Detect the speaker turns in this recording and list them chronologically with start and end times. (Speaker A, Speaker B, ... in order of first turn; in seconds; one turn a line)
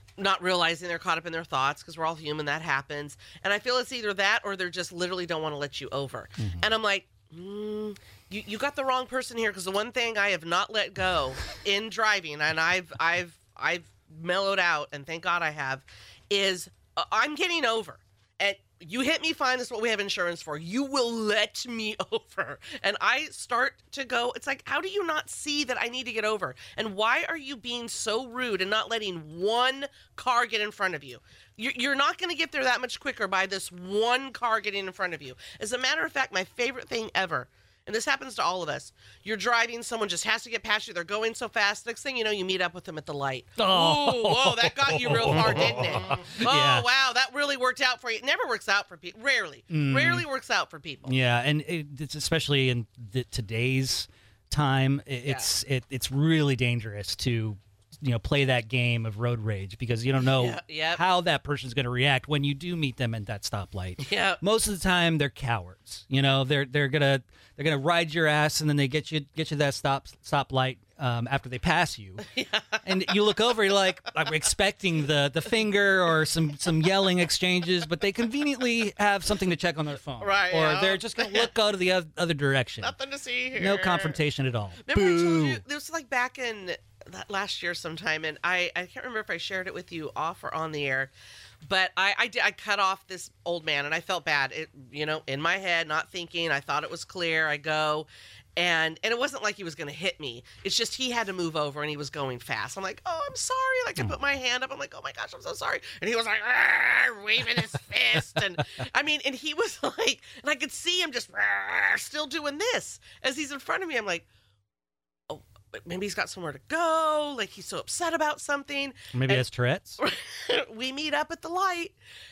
Speaker A: 0.2-51.1
Speaker B: 6.4-6.7
Speaker B: 43.6-46.9
Speaker B: 49.7-50.2
Speaker B: 51.0-72.2
Speaker A: 55.2-55.5
Speaker A: 60.3-61.0
Speaker A: 64.0-64.4
Speaker A: 72.2-72.8
Speaker B: 72.8-83.0
Speaker A: 80.2-81.5
Speaker A: 82.8-84.2
Speaker B: 83.5-85.6
Speaker A: 84.8-91.1
Speaker A: 91.6-114.2
Speaker A: 115.3-119.5
Speaker B: 119.1-120.0
Speaker A: 120.0-121.9